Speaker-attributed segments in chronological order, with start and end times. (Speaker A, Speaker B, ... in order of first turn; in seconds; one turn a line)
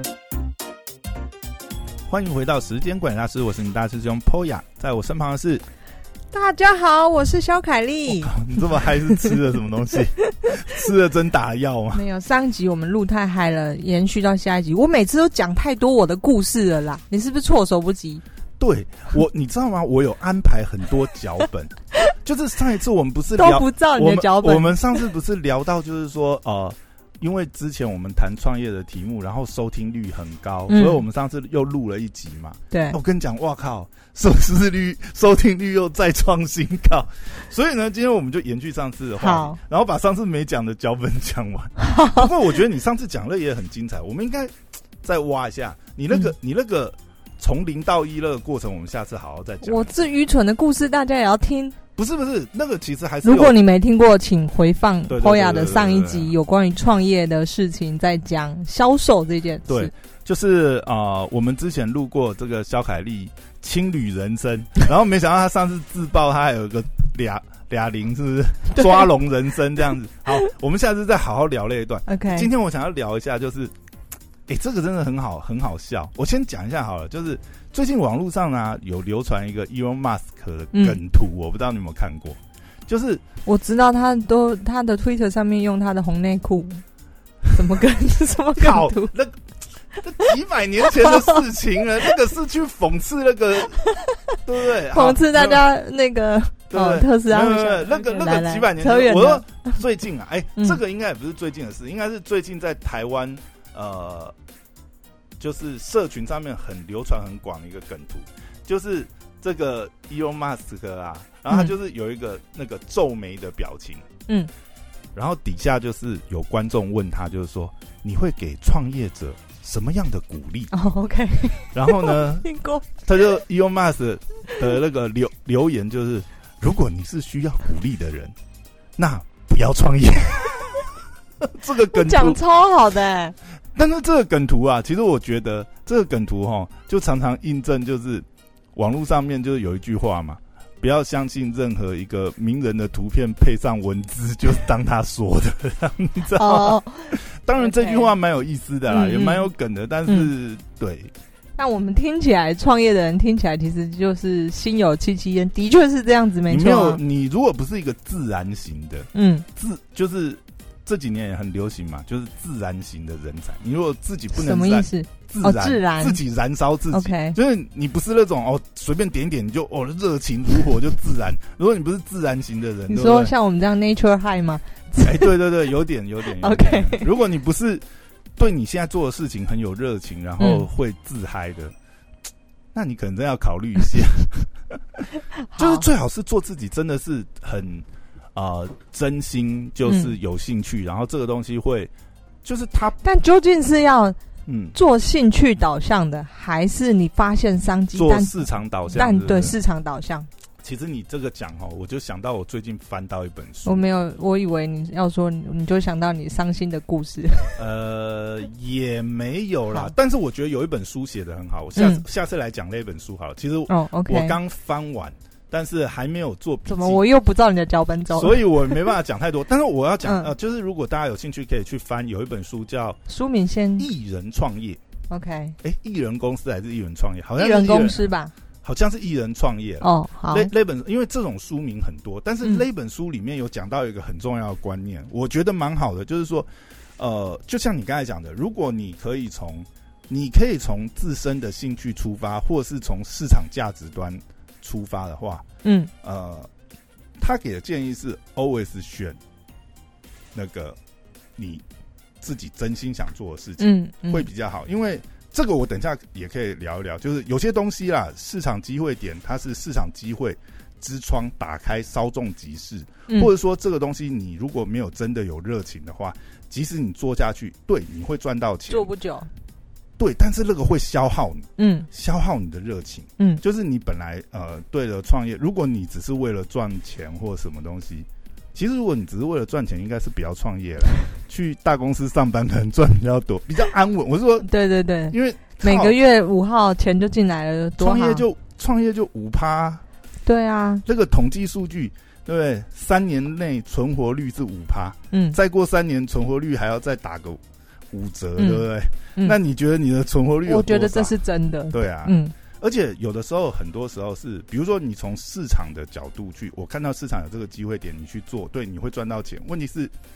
Speaker A: 2.1-5.6
Speaker B: 6.3-8.4
Speaker A: 8.1-12.0
Speaker B: 11.9-18.2
Speaker A: 18.6-49.9
Speaker B: 23.3-25.0
Speaker B: 30.7-31.0
Speaker B: 32.7-33.0
Speaker B: 39.2-39.6
Speaker B: 41.8-42.3
Speaker B: 49.6-51.8
Speaker A: 52.0-53.5
Speaker B: 53.2-59.9
Speaker A: 55.1-56.4
Speaker A: 59.7-73.7
Speaker B: 68.8-69.1
Speaker B: 72.0-72.5
Speaker A: 74.5-83.2
Speaker B: 80.7-81.0
Speaker B: 83.4-86.8
Speaker B: 87.5-89.1
Speaker A: 88.6-89.4
Speaker A: 90.0-93.9
Speaker B: 91.0-91.4
Speaker A: 94.4-95.7
Speaker B: 94.9-99.8
Speaker A: 96.7-104.3
Speaker A: 105.4-114.0
Speaker A: 115.1-120.7
Speaker B: 120.7-122.9
Speaker A: 121.7-122.5
Speaker A: 123.0-128.3
Speaker A: 129.0-132.4
Speaker B: 131.9-133.3
Speaker A: 133.7-151.1
Speaker B: 146.3-148.1
Speaker B: 148.9-149.4
Speaker B: 151.6-157.0
Speaker A: 156.5-173.3
Speaker B: 159.1-159.4
Speaker B: 164.3-166.2
Speaker B: 166.9-167.4
Speaker B: 172.9-175.3
Speaker A: 175.0-177.8
Speaker B: 176.4-177.1
Speaker A: 178.4-181.7
Speaker B: 180.4-180.7
Speaker A: 182.7-184.5
Speaker B: 185.5-185.8
Speaker A: 185.6-191.9
Speaker B: 189.9-190.1
Speaker A: 192.4-193.0
Speaker B: 193.0-194.2
Speaker A: 194.4-194.8
Speaker B: 194.7-200.3
Speaker A: 197.9-199.6
Speaker A: 200.6-203.9
Speaker B: 203.6-207.6
Speaker A: 207.6-217.0
Speaker B: 211.8-212.0
Speaker B: 213.7-214.4
Speaker B: 216.7-218.9
Speaker A: 218.1-223.0
Speaker B: 220.0-220.3
Speaker B: 223.1-223.9
Speaker A: 223.8-224.8
Speaker B: 225.1-225.6
Speaker A: 225.6-228.1
Speaker B: 227.4-228.3
Speaker A: 228.6-245.4
Speaker B: 229.8-230.5
Speaker B: 245.6-245.9
Speaker A: 246.0-246.5
Speaker A: 247.2-249.2
Speaker A: 250.3-250.8
Speaker A: 251.3-251.6
Speaker A: 252.2-268.9
Speaker B: 253.6-254.2
Speaker B: 268.7-269.3
Speaker A: 270.0-284.5
Speaker B: 271.6-271.9
Speaker B: 284.4-288.2
Speaker A: 285.1-285.9
Speaker A: 287.8-289.8
Speaker B: 290.2-290.8
Speaker A: 290.8-297.4
Speaker B: 295.1-295.4
Speaker A: 297.9-301.1
Speaker B: 298.4-298.6
Speaker B: 300.4-302.3
Speaker A: 301.7-309.9